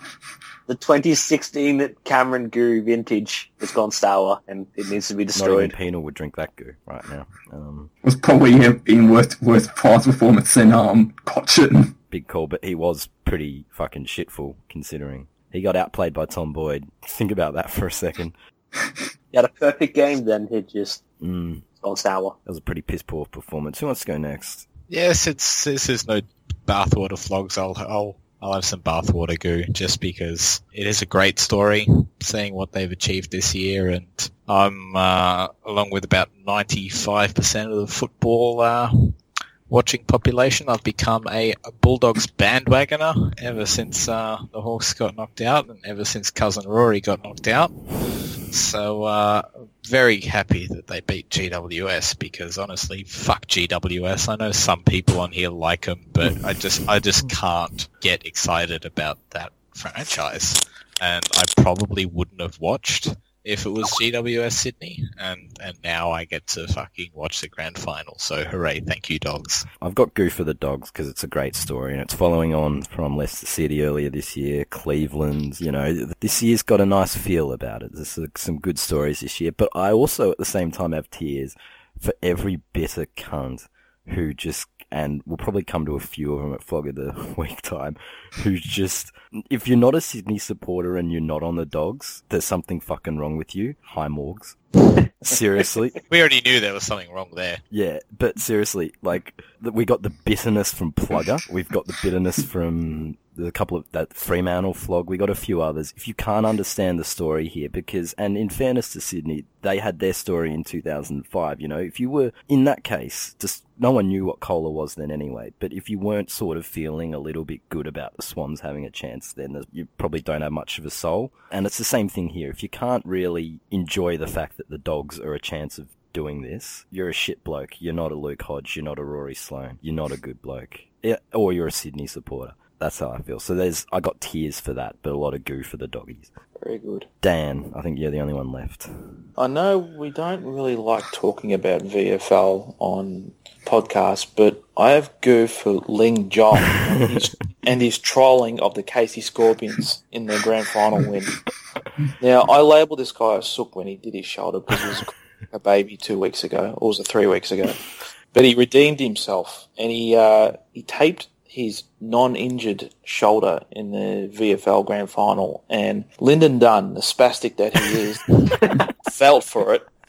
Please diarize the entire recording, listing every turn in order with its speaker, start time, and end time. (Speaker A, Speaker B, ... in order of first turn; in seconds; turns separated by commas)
Speaker A: 0.7-5.7, Speaker B: 5.3-7.9, Speaker C: 8.0-11.9, Speaker B: 12.1-18.3, Speaker A: 19.3-21.0, Speaker B: 21.2-21.6, Speaker A: 21.8-22.4, Speaker B: 22.4-24.7, Speaker D: 24.9-39.1, Speaker D: 39.7-47.8, Speaker D: 48.4-69.7, Speaker B: 69.8-94.6, Speaker B: 95.2-96.0, Speaker D: 96.1-97.6, Speaker B: 97.7-136.3, Speaker E: 136.6-137.1, Speaker B: 137.2-138.9, Speaker E: 139.4-151.4, Speaker E: 152.2-169.9